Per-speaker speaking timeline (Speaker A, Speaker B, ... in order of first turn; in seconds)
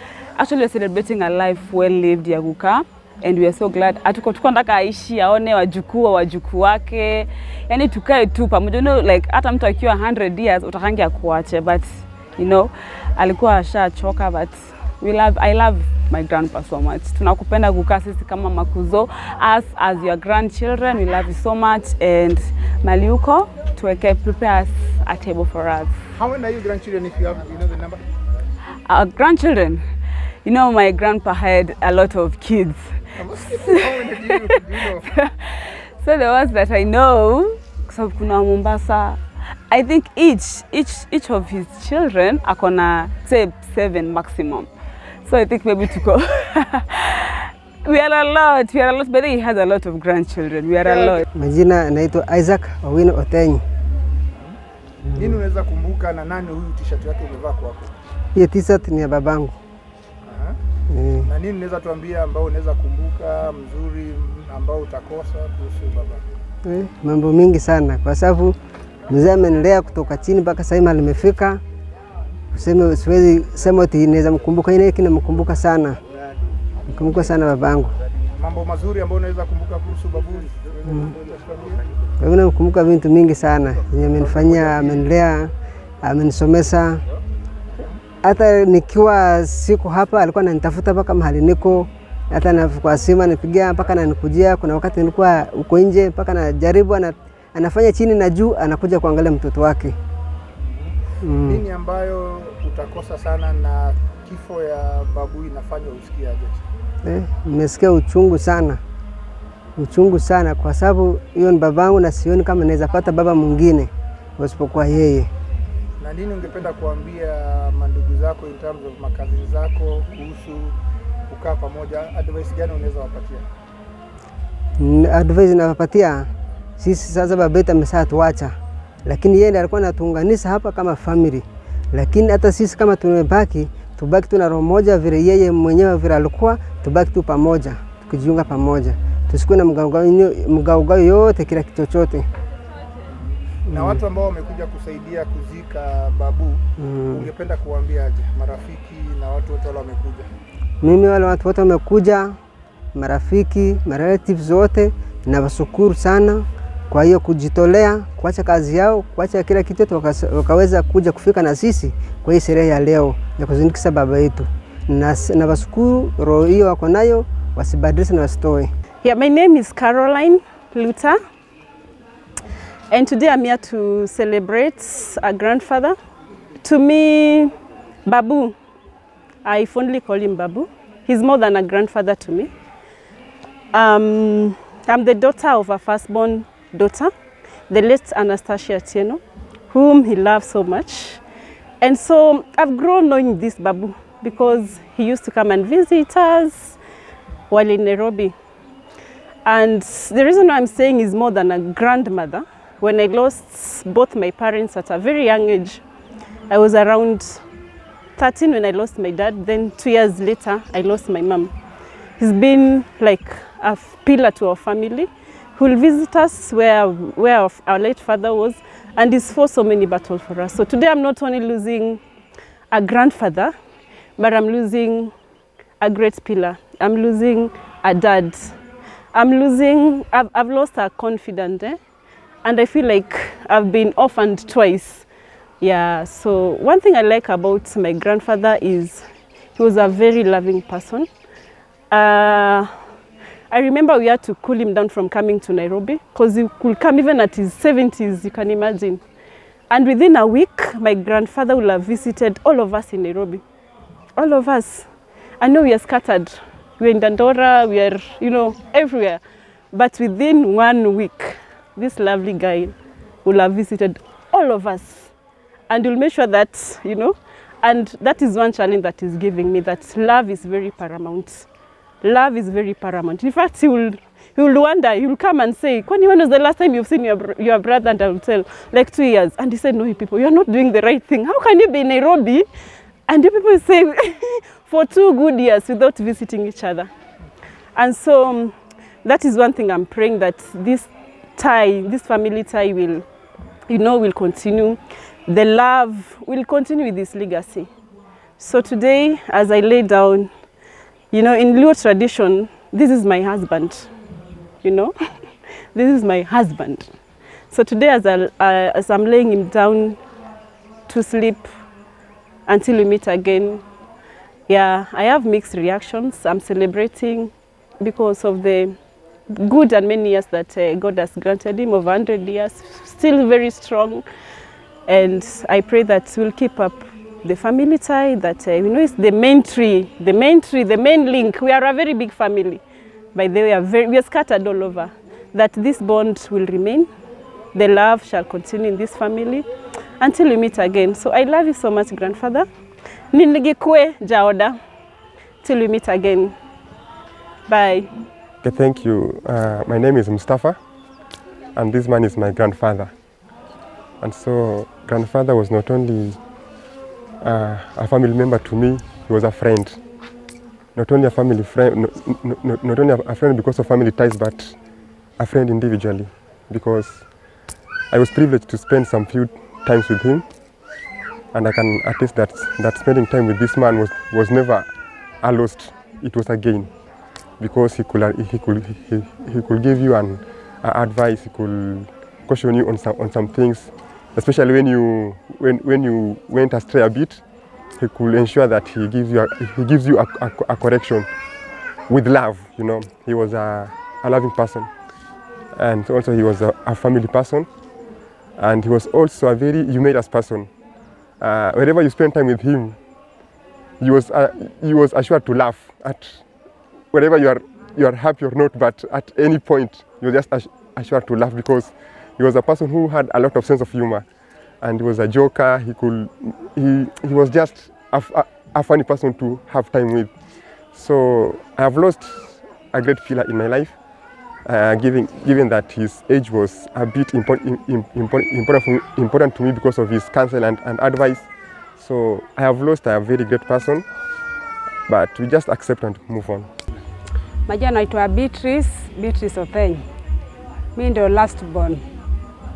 Speaker A: 0.4-11.8, 12.4-25.9, 28.9-29.8, 30.4-32.8, 33.5-35.3, 36.0-39.2, 39.7-44.7, 45.3-51.3
Speaker B: 26.1-28.0, 33.2-35.0, 50.8-51.1, 55.1-57.9, 60.2-60.6, 61.2-66.2, 78.4-81.8, 84.2-84.9, 100.6-106.6, 116.0-120.8, 121.3-123.5, 143.1-146.6, 147.1-150.3
Speaker C: 51.3-53.6, 58.4-59.5, 60.9-61.3, 66.7-68.6, 69.1-71.6, 72.5-76.0, 76.9-77.9, 82.2-85.5, 86.0-87.0, 88.2-100.0, 101.2-101.6, 107.0-108.8, 109.8-115.3, 124.8-126.3, 126.8-128.6, 129.1-142.3, 146.8-147.3, 150.8-152.4, 152.9-168.7
Speaker D: 169.0-171.2, 172.9-176.0, 176.6-178.6, 179.4-182.5, 183.7-187.1, 187.7-191.2, 191.8-196.8, 197.5-198.3, 199.4-205.8, 206.5-207.4, 208.2-211.5, 212.2-222.0, 222.7-223.6, 224.2-225.1, 225.8-228.6, 229.1-231.8, 232.4-235.1, 235.6-241.1, 241.9-242.7, 243.5-249.0, 249.7-253.4, 254.2-254.9, 255.4-265.1, 265.7-271.5, 272.0-282.5, 283.1-286.9, 287.8-293.1, 293.7-297.7, 298.4-300.3, 301.1-303.9, 304.6-304.9, 305.7-306.9, 307.5-310.0, 310.9-311.5, 312.5-313.6, 314.5-318.8, 319.3-324.1, 324.9-332.6, 333.1-336.9, 337.5-339.5, 340.0-342.5, 343.1-344.6, 345.4-346.4, 347.5-347.9
Speaker E: 348.4-350.6, 351.6-352.9, 354.0-356.2, 357.2-359.8, 360.8-364.6, 365.2-367.1, 367.9-370.2, 371.3-374.7, 375.2-376.7, 377.4-387.2, 387.8-391.1, 391.9-394.7, 395.6-397.5, 398.4-400.5, 401.2-402.8, 403.8-406.2, 406.9-414.1, 414.6-420.1, 420.7-423.8, 424.5-433.9, 434.9-436.5
Speaker F: 437.5-439.8, 440.8-441.8